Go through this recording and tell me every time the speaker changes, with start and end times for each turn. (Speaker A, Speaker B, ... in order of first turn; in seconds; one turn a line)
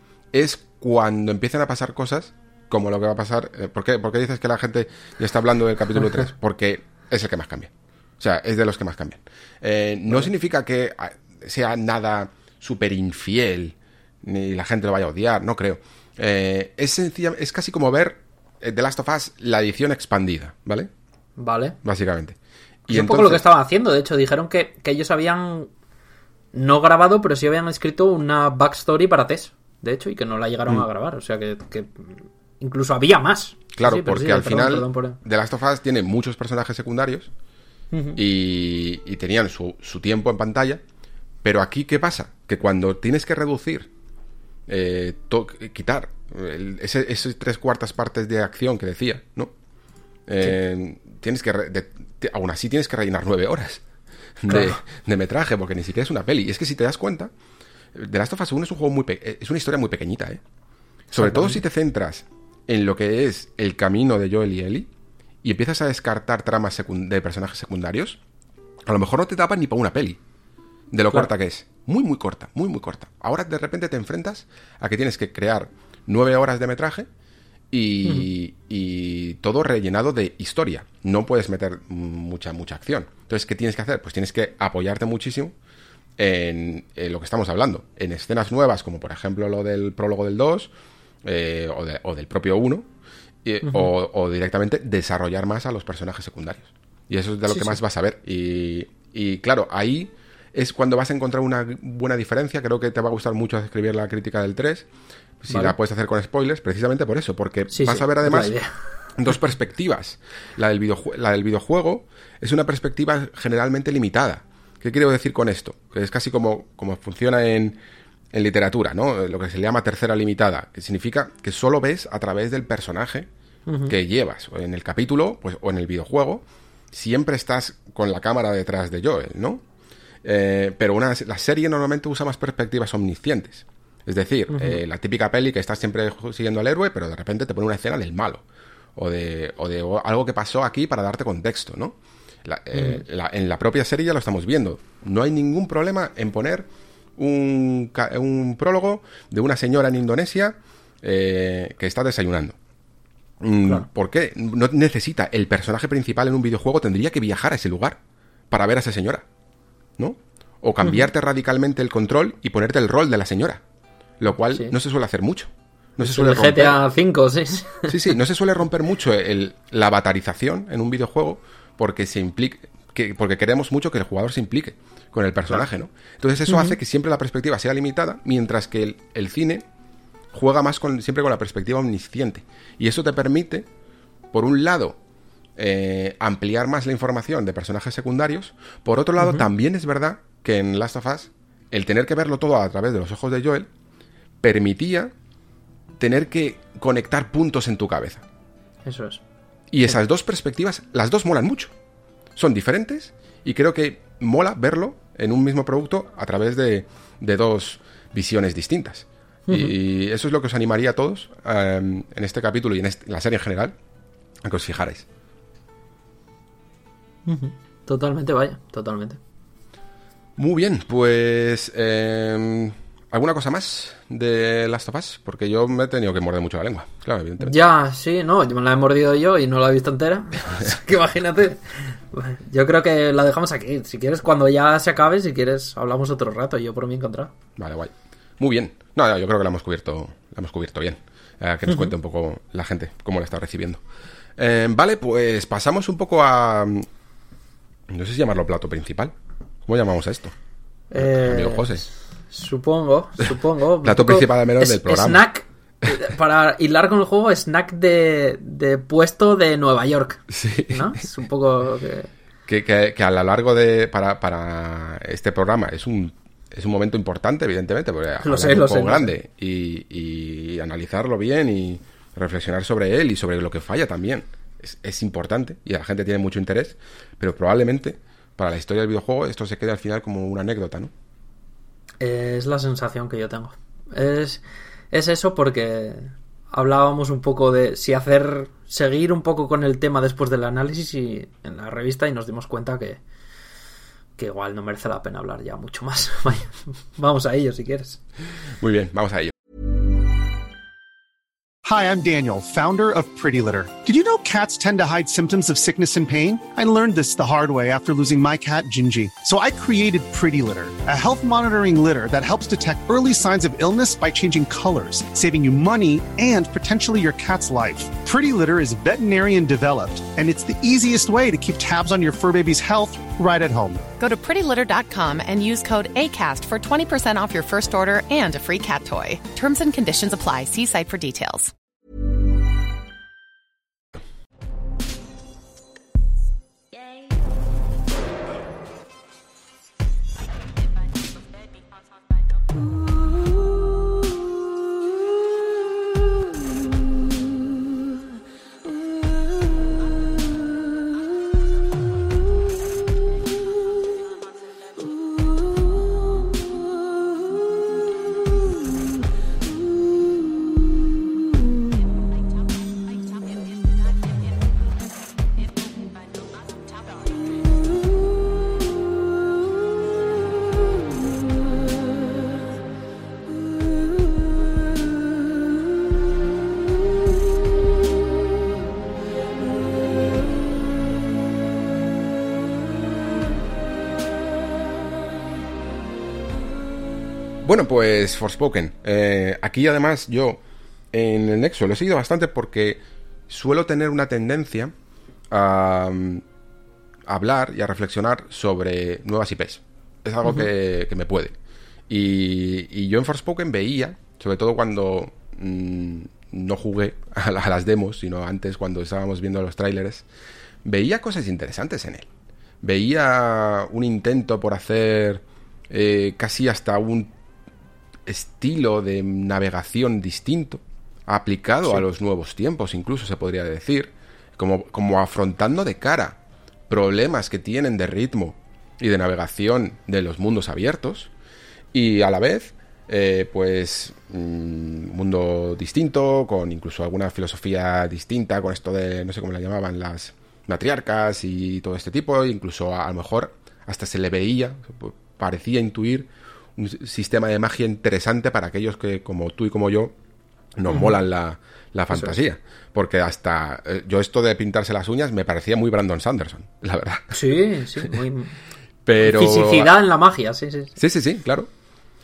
Speaker A: 0.3-20.9
Speaker B: 21.4-21.8
Speaker A: 21.8-23.4
Speaker B: 22.9-25.7
Speaker B: 26.5-35.2
Speaker A: 33.7-37.3
Speaker B: 37.9-38.2
Speaker A: 38.1-40.8
Speaker A: 41.4-43.9
Speaker A: 44.7-49.5
Speaker A: 50.3-53.8
Speaker A: 54.4-57.3
Speaker B: 54.5-54.8
Speaker A: 57.9-60.4
Speaker B: 61.1-61.6
Speaker A: 61.1-64.9
Speaker A: 65.4-68.2
Speaker A: 68.8-70.2
Speaker A: 70.9-77.1
Speaker A: 77.7-85.5
Speaker A: 86.2-90.7
Speaker A: 91.2-92.9
Speaker A: 93.4-104.9
Speaker B: 93.6-93.9
Speaker B: 97.5-97.8
Speaker A: 105.4-108.5
Speaker B: 105.5-105.7
Speaker B: 107.7-108.7
Speaker A: 109.2-117.8
Speaker A: 118.3-123.3
Speaker B: 123.7-124.0
Speaker A: 123.9-129.6
Speaker A: 130.2-138.4
Speaker B: 134.5-134.8
Speaker A: 138.9-152.6
Speaker B: 142.7-143.0
Speaker A: 153.4-158.0
Speaker A: 158.5-159.2
Speaker A: 160.0-163.6
Speaker B: 160.8-161.1
Speaker A: 164.2-166.8
Speaker B: 164.4-164.7
Speaker B: 166.0-168.1
Speaker A: 167.9-179.6
Speaker B: 176.5-176.8
Speaker A: 180.3-183.7
Speaker A: 184.3-185.0
Speaker A: 185.6-193.7
Speaker B: 189.2-189.4
Speaker A: 194.4-195.1
Speaker A: 196.0-198.2
Speaker B: 198.8-199.2
Speaker A: 199.7-201.7
Speaker A: 202.3-213.8
Speaker B: 209.5-209.7
Speaker A: 214.4-215.1
Speaker B: 217.2-219.2
Speaker A: 220.4-227.5
Speaker B: 227.4-237.3
Speaker A: 237.6-243.8
Speaker B: 241.7-241.9
Speaker A: 244.4-246.9
Speaker A: 247.9-249.1
Speaker A: 249.7-250.3
Speaker B: 250.9-262.1
Speaker A: 250.9-251.8
Speaker A: 253.8-255.2
Speaker A: 260.3-261.0
Speaker A: 262.5-280.9
Speaker B: 268.2-269.1
Speaker B: 282.0-293.0
Speaker B: 294.2-298.0
Speaker A: 298.6-299.3
Speaker C: 301.6-323.8
Speaker D: 324.0-331.5
Speaker A: 387.4-390.4
Speaker A: 390.9-394.7
Speaker A: 395.3-396.2
Speaker A: 397.1-401.4
Speaker B: 400.2-400.5
Speaker A: 401.9-410.1
Speaker A: 410.6-412.1
Speaker A: 412.6-417.1
Speaker A: 418.1-426.2
Speaker A: 426.7-431.1
Speaker A: 431.7-449.9
Speaker A: 450.6-457.2
Speaker B: 450.7-450.9
Speaker B: 451.9-452.2
Speaker B: 457.1-458.3
Speaker A: 458.9-459.7
Speaker B: 459.0-460.8
Speaker A: 460.8-461.5